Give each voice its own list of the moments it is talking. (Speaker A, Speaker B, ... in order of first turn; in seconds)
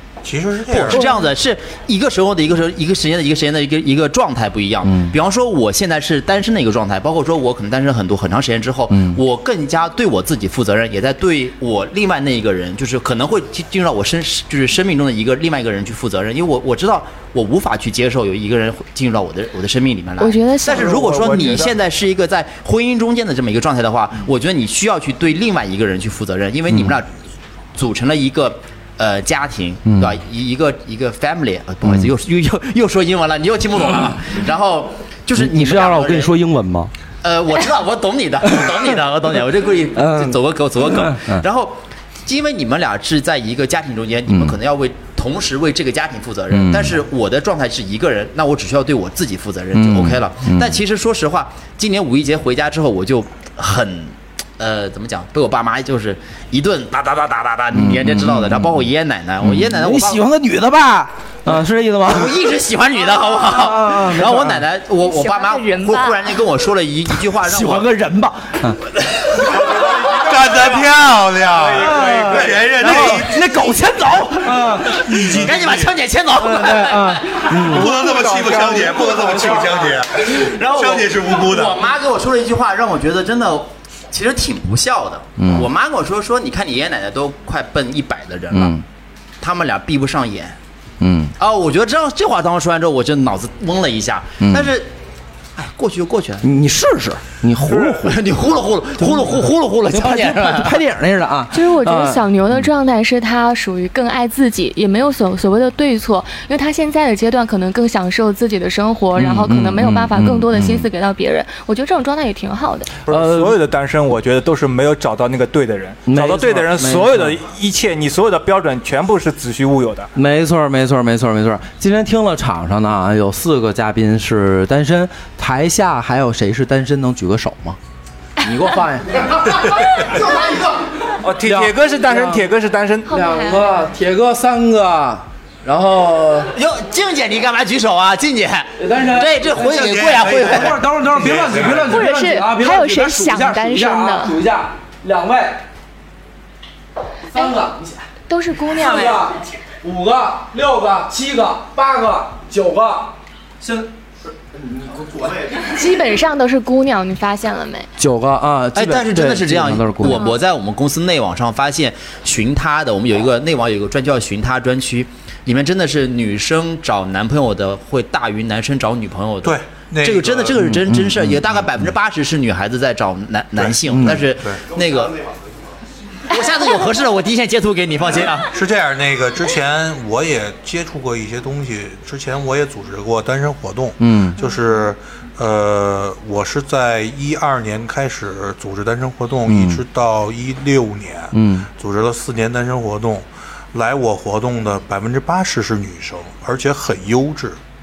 Speaker A: 0.2-1.1, 69.5-73.5, 75.0-75.9, 77.5-81.8, 139.5-142.0, 169.4-170.6, 173.6-174.6, 178.5-197.6
Speaker B: 0.7-27.1, 27.7-36.3, 37.2-60.3, 62.1-67.9, 72.1-73.2, 75.2-77.7, 79.3-88.8, 89.4-90.6, 91.4-94.9, 95.6-96.5, 97.7-100.8, 136.5-140.8, 158.7-175.3, 176.3-178.5
Speaker C: 4.8-5.1, 8.9-9.2, 29.9-30.2, 31.8-32.1, 35.3-36.9, 38.4-38.9, 39.9-41.4, 44.3-44.5, 46.5-47.0, 49.7-50.8, 57.7-58.8, 59.4-62.4, 63.2-64.6, 67.1-68.8, 71.7-75.5, 76.3-79.0, 85.4-85.7, 88.5-88.8, 91.0-91.3, 94.4-94.7, 96.4-98.2, 99.0-102.6, 109.1-110.9, 113.1-113.6, 116.0-117.4, 120.1-127.8, 128.4-130.8, 131.4-132.5, 133.1-136.5, 138.8-145.7, 147.3-148.1, 148.7-153.9, 154.5-155.6, 158.0-160.3, 170.6-171.4, 173.9-174.2, 184.0-184.4, 189.5-189.8, 191.3-191.7
Speaker D: 20.2-21.0, 65.0-66.3, 101.5-112.9, 133.1-133.6, 141.9-144.3, 148.3-149.3, 155.5-157.9, 160.0-160.3
Speaker E: 20.7-21.8, 78.0-79.6, 113.0-120.1, 131.2-133.1